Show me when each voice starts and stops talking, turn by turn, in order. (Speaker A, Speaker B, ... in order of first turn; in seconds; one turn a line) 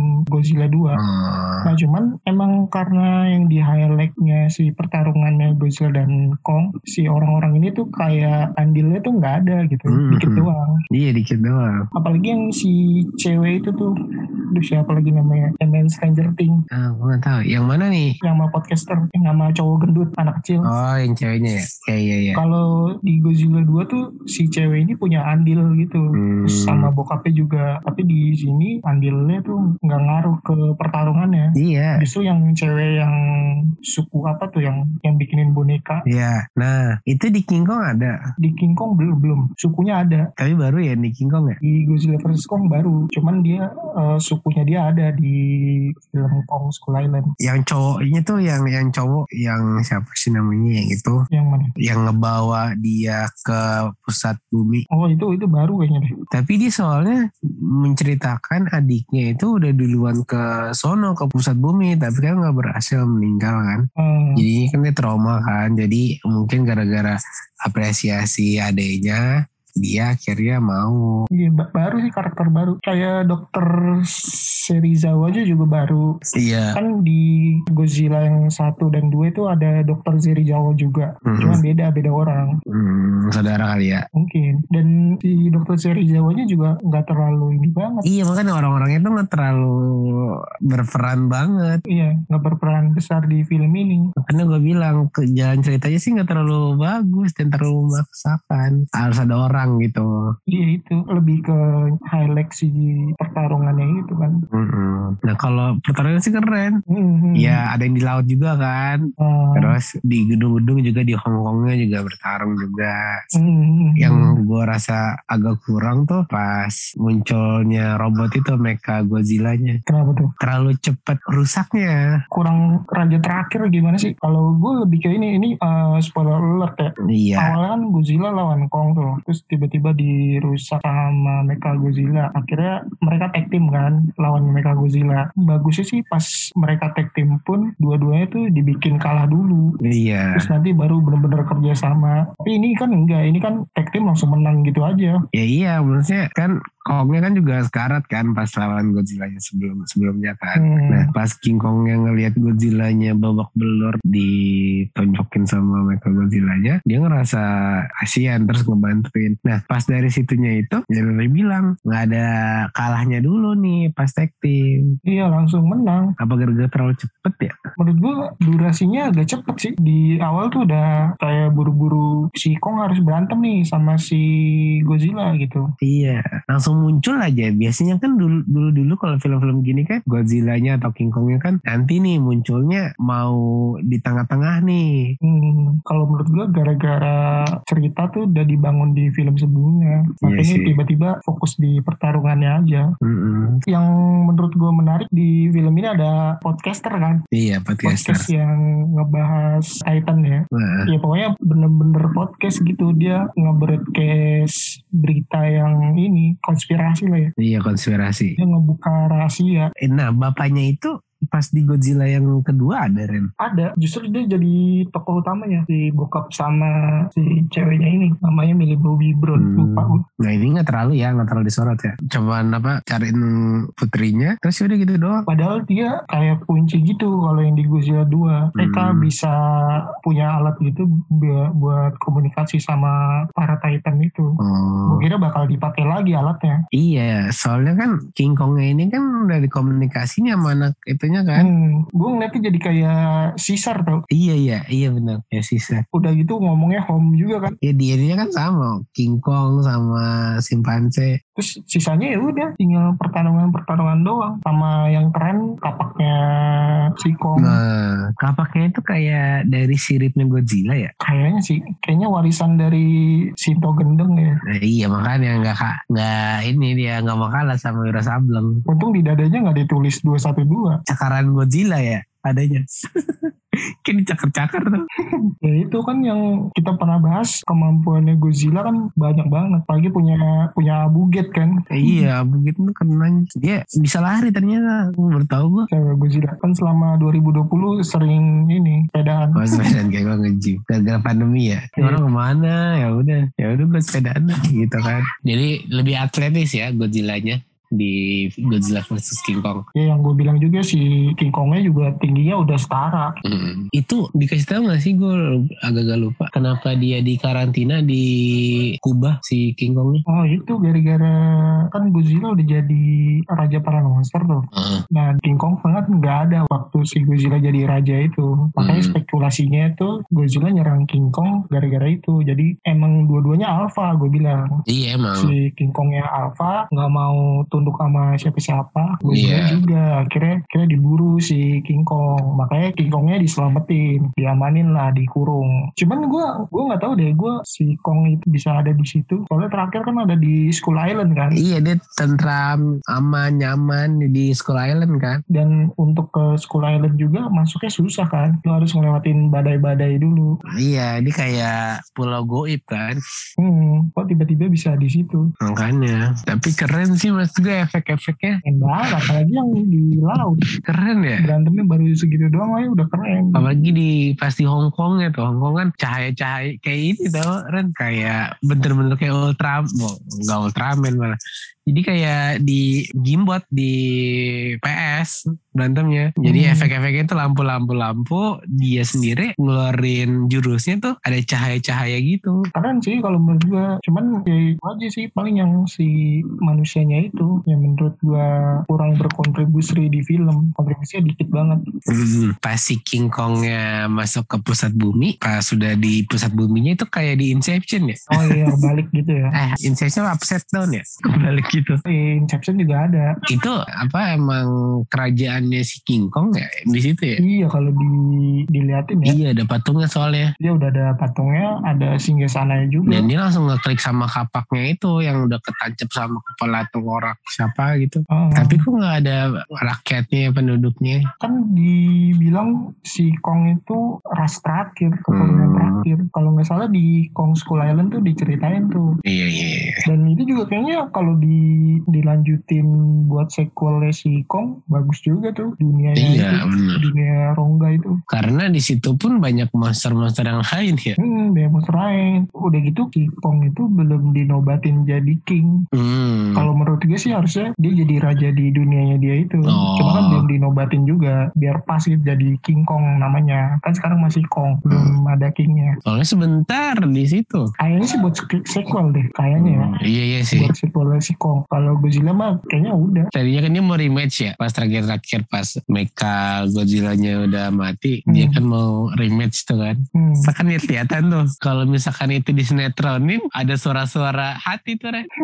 Speaker A: 0.3-1.0
Speaker B: 1.0-1.7
Speaker A: 1.6-10.7
Speaker B: 9.9-11.8
Speaker A: 12.0-13.9
Speaker A: 14.5-16.6
Speaker B: 16.8-18.1
Speaker A: 18.2-20.7
Speaker B: 20.7-22.4
Speaker A: 22.3-33.2
Speaker B: 26.2-26.9
Speaker B: 31.6-32.0
Speaker A: 33.9-36.0
Speaker B: 36.1-38.1
Speaker A: 38.4-40.3
Speaker B: 40.4-41.6
Speaker A: 41.6-47.3
Speaker B: 47.4-51.2
Speaker A: 51.3-51.7
Speaker B: 51.8-54.8
Speaker A: 54.9-56.1
Speaker B: 56.3-57.2
Speaker B: 57.7-63.9
Speaker A: 64.0-64.4
Speaker B: 64.4-69.2
Speaker B: 69.8-71.0
Speaker A: 71.4-76.0
Speaker B: 76.4-76.8
Speaker A: 76.7-82.5
Speaker B: 81.3-81.6
Speaker B: 82.7-84.0
Speaker A: 84.2-88.0
Speaker B: 88.0-91.8
Speaker A: 91.9-94.0
Speaker B: 94.2-100.1
Speaker A: 100.5-104.4
Speaker B: 104.5-106.7
Speaker A: 106.9-107.6
Speaker B: 107.4-109.0
Speaker A: 109.2-109.7
Speaker B: 109.5-113.0
Speaker A: 113.4-114.3
Speaker B: 114.0-119.8
Speaker A: 119.9-120.3
Speaker B: 120.4-122.0
Speaker A: 122.3-139.7
Speaker B: 127.1-127.5
Speaker B: 139.8-140.5
Speaker A: 140.3-145.2
Speaker B: 145.3-157.4
Speaker A: 150.6-151.1
Speaker B: 158.0-164.9
Speaker A: 165.1-166.1
Speaker B: 166.2-167.5
Speaker A: 167.8-174.3
Speaker A: 174.8-175.7
Speaker B: 175.8-184.9
Speaker A: 185.2-192.9
Speaker B: 190.2-190.7
Speaker B: 193.0-193.6
Speaker A: 193.7-197.2
Speaker B: 197.3-198.3
Speaker A: 197.8-207.3
Speaker B: 200.5-200.9
Speaker B: 207.4-208.3
Speaker A: 208.4-209.7
Speaker B: 209.8-213.3
Speaker A: 213.4-220.0
Speaker B: 219.4-225.2
Speaker A: 225.3-229.3
Speaker B: 228.6-229.1
Speaker A: 230.0-234.3
Speaker B: 234.4-235.0
Speaker A: 234.8-236.6
Speaker B: 236.7-241.5
Speaker A: 241.3-244.0
Speaker B: 244.1-245.8
Speaker A: 245.9-247.6
Speaker B: 247.6-251.2
Speaker A: 251.4-257.6
Speaker B: 257.4-260.9
Speaker A: 261.0-262.9
Speaker A: 263.4-264.3
Speaker B: 264.5-268.6
Speaker A: 268.7-270.8
Speaker B: 270.9-273.3
Speaker B: 273.8-274.8
Speaker A: 275.4-282.1
Speaker B: 281.7-285.7
Speaker A: 285.7-289.6
Speaker B: 289.4-299.6
Speaker A: 299.8-303.1
Speaker B: 303.2-310.0
Speaker A: 310.1-311.1
Speaker A: 311.7-324.5
Speaker B: 314.5-314.8
Speaker B: 318.6-318.9
Speaker B: 324.7-325.3
Speaker A: 325.2-341.4
Speaker B: 329.1-329.6
Speaker B: 341.4-345.2
Speaker A: 345.3-350.3
Speaker B: 350.6-353.0
Speaker A: 353.4-355.2
Speaker B: 355.4-358.4
Speaker A: 358.4-360.4
Speaker B: 360.7-361.2
Speaker A: 361.2-363.5
Speaker B: 363.4-371.2
Speaker B: 371.7-382.4
Speaker A: 376.2-376.7
Speaker A: 382.5-385.9
Speaker A: 386.5-391.6
Speaker B: 391.9-398.4
Speaker A: 398.1-399.3
Speaker B: 399.4-401.8
Speaker A: 401.9-403.1
Speaker B: 403.3-407.2
Speaker A: 407.2-407.9
Speaker A: 408.5-409.2
Speaker B: 409.1-410.3
Speaker A: 410.4-413.1
Speaker B: 412.9-421.0
Speaker A: 418.1-418.6
Speaker A: 421.2-428.9
Speaker B: 425.1-425.8
Speaker B: 429.1-429.8
Speaker A: 429.9-438.0
Speaker B: 436.0-436.8
Speaker B: 438.1-440.9
Speaker A: 441.0-445.5
Speaker B: 445.7-446.5
Speaker A: 446.3-455.7
Speaker B: 449.5-450.2
Speaker B: 455.9-457.5
Speaker A: 457.6-459.7
Speaker B: 459.4-460.5
Speaker A: 460.3-463.1
Speaker B: 463.1-475.1
Speaker A: 468.1-468.4
Speaker A: 470.0-470.3